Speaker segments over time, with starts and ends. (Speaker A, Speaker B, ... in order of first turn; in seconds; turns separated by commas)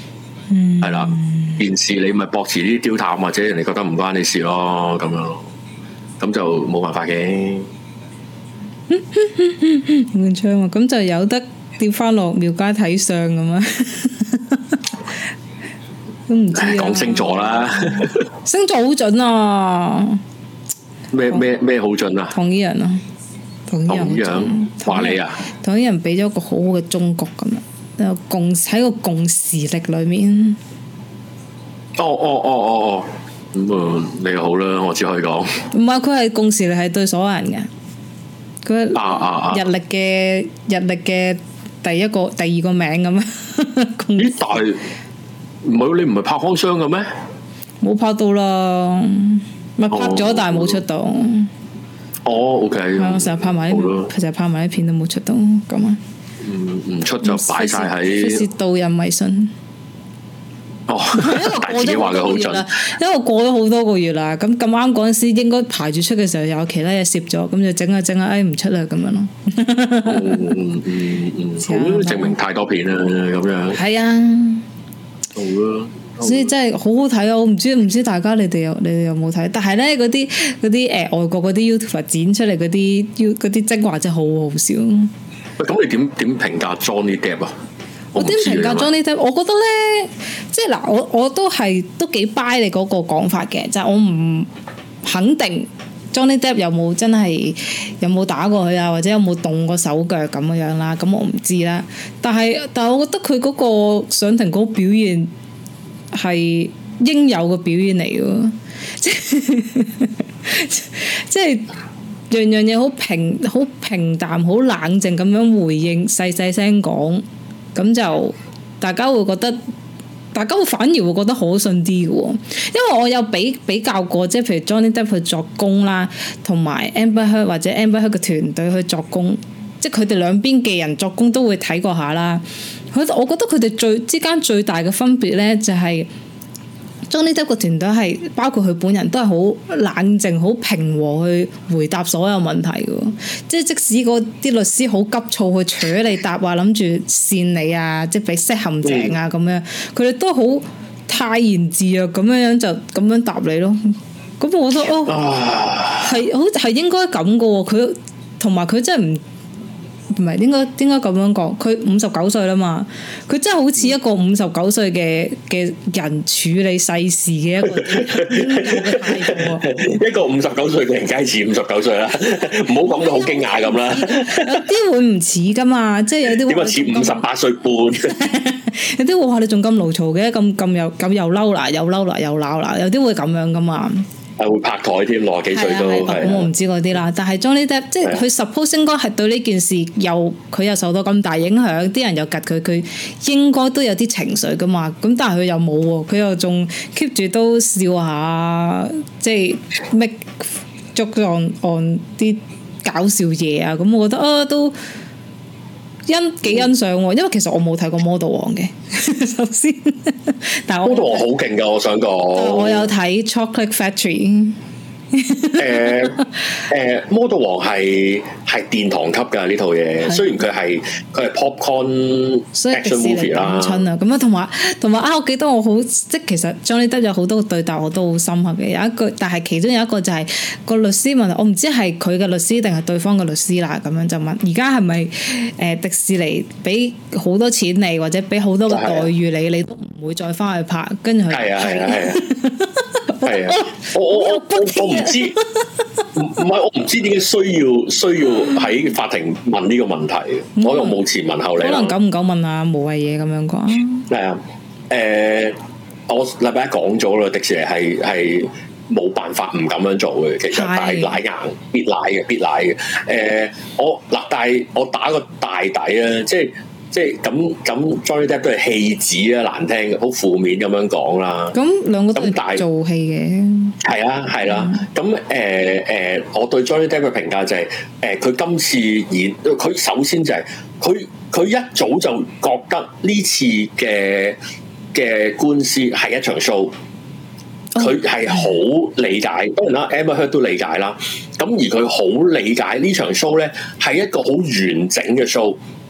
Speaker A: 0.5-1.6, Speaker B: 0.8-5.4, Speaker B: 6.2-7.7, Speaker A: 8.9-14.8, Speaker A: 16.3-20.2, Speaker B: 16.5-18.2, Speaker B: 21.1-22.3, Speaker A: 22.3-23.0, Speaker A: 23.7-30.6, Speaker B: 23.9-25.4, Speaker B: 32.0-35.6, Speaker A: 35.7-37.7, Speaker A: 38.6-44.5, Speaker B: 38.9-39.6, Speaker B: 44.2-44.8, Speaker B: 45.6-47.1, Speaker A: 47.8-51.5, Speaker B: 49.9-50.8, Speaker B: 52.2-54.1, Speaker A: 53.0-56.0, Speaker B: 56.4-58.4, Speaker A: 57.2-59.5, Speaker B: 60.9-62.7, Speaker A: 61.1-70.5, Speaker B: 70.0-73.8, Speaker A: 71.6-72.4, Speaker A: 73.7-74.7, Speaker B: 75.3-76.5, Speaker A: 76.2-85.1, Speaker B: 85.6-87.5, Speaker A: 88.1-94.5, Speaker B: 88.1-88.9, Speaker A: 95.0-105.3, Speaker A: 106.1-111.7, Speaker A: 112.3-117.2, Speaker A: 117.7-119.6, Speaker A: 120.3-136.1, Speaker A: 137.1-155.2, Speaker B: 148.8-149.2, Speaker B: 155.0-156.2, Speaker A: 156.0-159.2, Speaker A: 160.1-169.7, Speaker B: 167.7-174.6, Speaker A: 172.8-177.2, Speaker B: 176.3-178.2, Speaker A: 178.0-184.1, Speaker B: 184.4-186.5, Speaker A: 185.5-204.8, Speaker A: 206.1-211.2, Speaker B: 210.8-212.9, Speaker A: 212.3-214.6, Speaker A: 215.1-216.2, Speaker B: 215.6-223.8, Speaker A: 222.5-245.7, Speaker B: 238.7-239.1, Speaker B: 241.3-242.2, Speaker B: 243.2-245.4, Speaker B: 246.1-251.9, Speaker A: 250.6-251.0, Speaker A: 251.5-254.1, Speaker B: 254.1-255.6, Speaker B: 256.1-271.6, Speaker A: 260.5-261.2, Speaker A: 271.5-273.8, Speaker B: 272.1-272.6, Speaker B: 273.8-284.4, Speaker A: 274.5-274.8, Speaker B: 284.9-286.7, Speaker B: 287.8-295.6